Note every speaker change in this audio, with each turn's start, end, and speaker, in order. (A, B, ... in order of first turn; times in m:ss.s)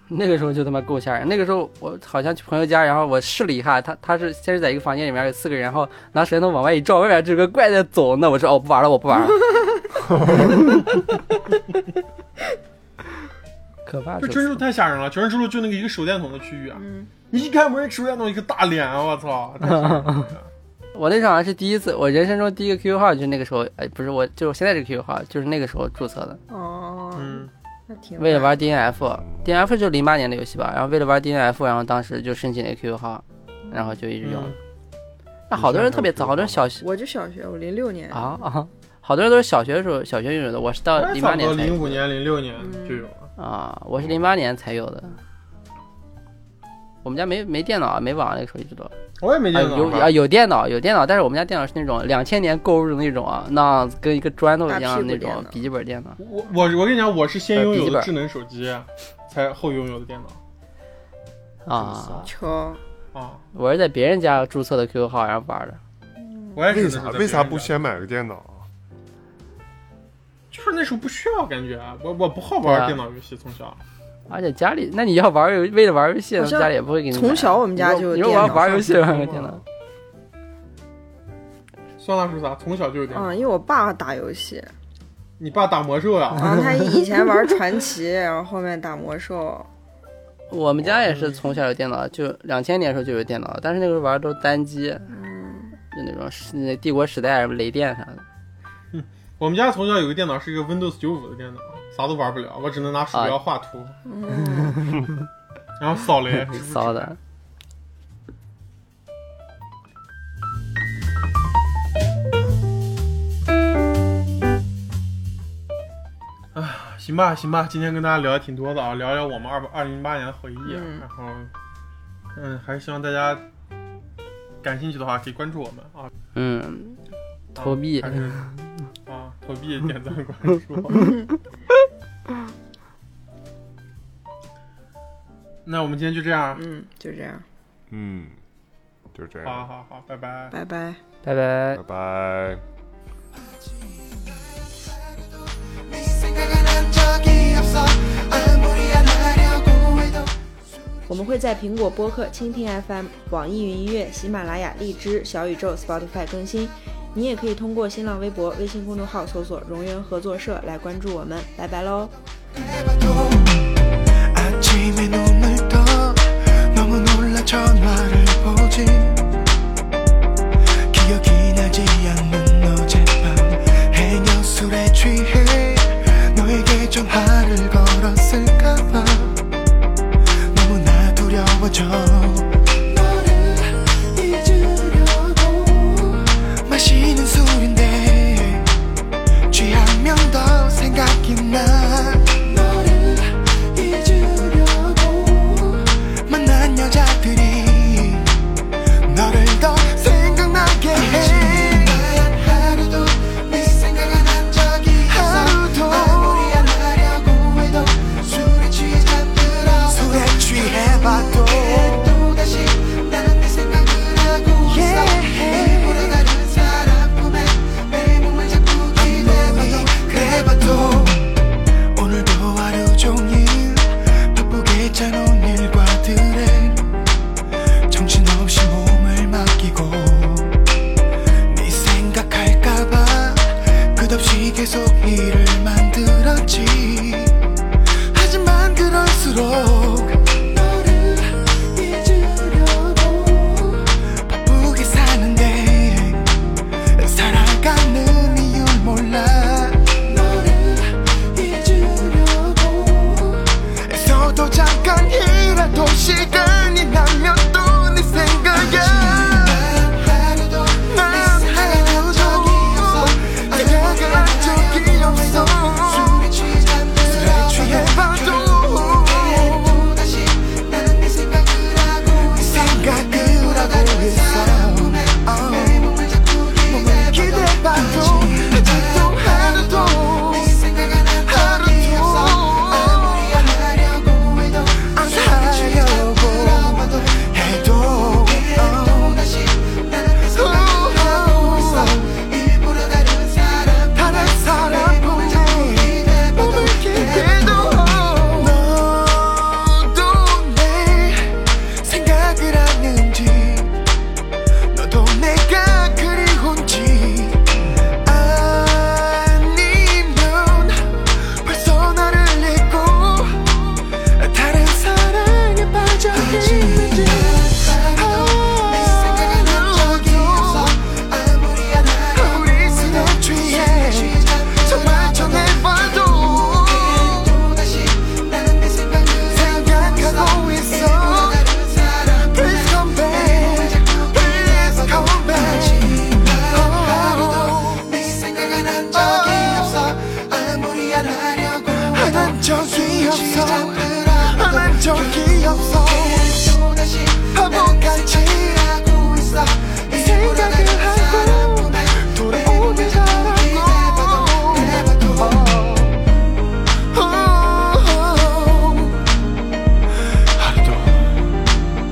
0:00.1-0:09.7 A
0:10.2-0:11.0 A
0:13.8-0:14.6 A
0:14.2-0:20.5 B
0:16.8-0:17.1 C
0:19.6-0:20.3 A
0:20.9-0:26.4 A
0:26.5-0:28.6 C
0:27.2-0:27.5 B
0:28.2-0:34.6 A
0:28.9-0:29.6 D
0:34.2-0:34.6 B
0:35.5-0:36.8 A
0:35.5-0:36.8 D
0:36.8-0:38.4 C
0:38.1-0:42.0 A
0:41.0-0:43.3 B
0:42.6-0:43.1 C
0:43.4-0:45.2 A
0:44.0-0:44.3 D
0:47.0-0:48.9 A
0:49.2-0:50.2 B
0:49.5-0:56.2 A
0:54.7-0:55.6 C
0:56.2-1:00.4 B
0:57.6-0:58.1 A
1:01.6-1:02.3 A
1:01.7-1:02.1 D
1:02.2-1:02.8 C
1:03.1-1:03.4 B
1:03.5-1:05.8 A
1:06.2-1:06.6 C
1:06.6-1:07.8 B
1:06.7-1:08.7 D
1:10.5-1:13.8 B
1:12.6-1:13.0 A
1:14.3-1:19.6 A
1:16.4-1:19.0 C
1:18.7-1:19.6 D
1:22.0-1:23.5 B
1:23.1-1:24.7 C
1:25.4-1:26.6 B
1:26.4-1:29.7 C
1:26.6-1:27.2 A
1:30.5-1:35.1 A
1:31.1-1:31.4 B
1:35.1-1:35.8 C
1:35.9-1:38.2 A
1:38.9-1:44.0 B
1:44.1-1:44.8 C
1:44.3-1:45.1 A
1:45.8-1:47.2 B
1:46.3-1:47.2 A
1:56.6-2:01.5 B
2:00.6-2:01.0 C
2:02.3-2:03.4 B
2:04.6-2:06.1 B
2:06.4-2:07.0 A
2:07.6-2:08.7 A
2:07.6-2:08.4 B
2:09.1-2:11.2 B
2:15.7-2:16.6 B
2:16.5-2:17.4 C
2:17.9-2:18.4 D
2:19.1-2:19.7 D
2:19.4-2:20.6 B
2:20.5-2:21.0 C
2:21.2-2:21.8 A
2:21.7-2:22.6 D
2:26.0-2:27.6 E
2:28.5-2:29.6 E
2:31.1-2:42.2 F
2:43.0-2:43.6 E
2:44.3-2:49.4 E
2:50.9-2:59.4 E
3:00.5-3:08.7 E
3:09.5-3:18.4 E
3:19.0-3:41.4 E
3:41.9-3:46.9 E
3:47.9-3:50.6 E
3:51.5-3:57.4 E
3:58.1-5:03.8 E
5:04.7-5:07.4 E
5:07.9-5:56.0 E
5:56.9-5:59.0 E
6:00.4-6:01.2 E